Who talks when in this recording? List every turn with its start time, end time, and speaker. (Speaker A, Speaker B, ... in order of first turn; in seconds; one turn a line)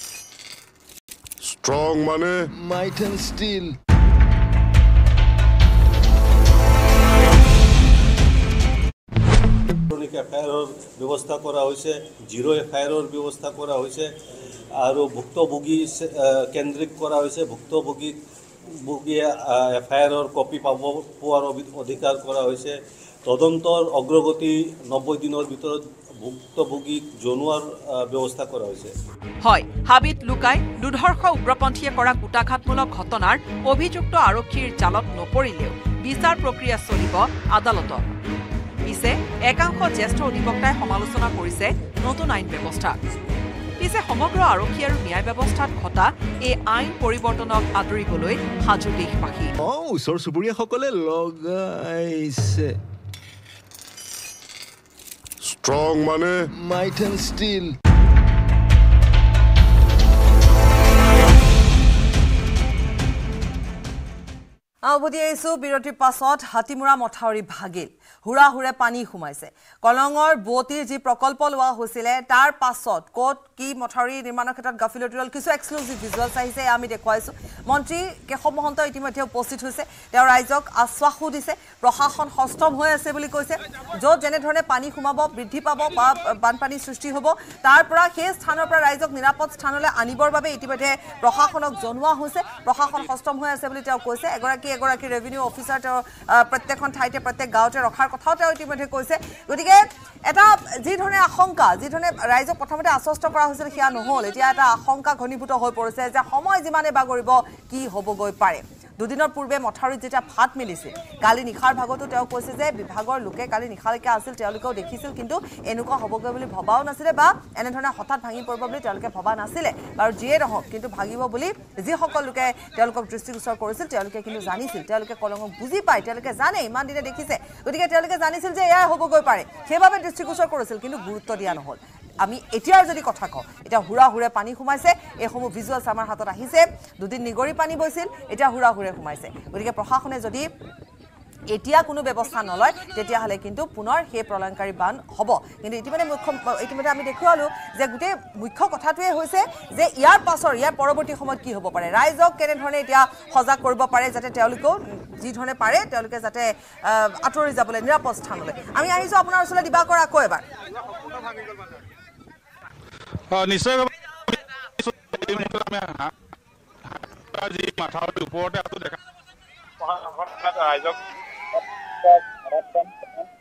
Speaker A: 1.4-2.5
Speaker B: 2.6-3.8
Speaker C: 9.9-14.1
Speaker C: 14.8-18.2
Speaker C: 18.7-28.9
Speaker D: 29.4-38.0
Speaker D: 38.9-43.0
Speaker D: 43.8-49.5
Speaker B: 49.6-52.8
Speaker A: 55.4-56.5
Speaker B: 56.6-57.7
Speaker E: 64.9-140.5
Speaker E: 141.5-160.4
Speaker F: 163.3-166.1
Speaker F: 166.9-169.0
Speaker F: 169.9-170.9
Speaker F: 172.1-173.0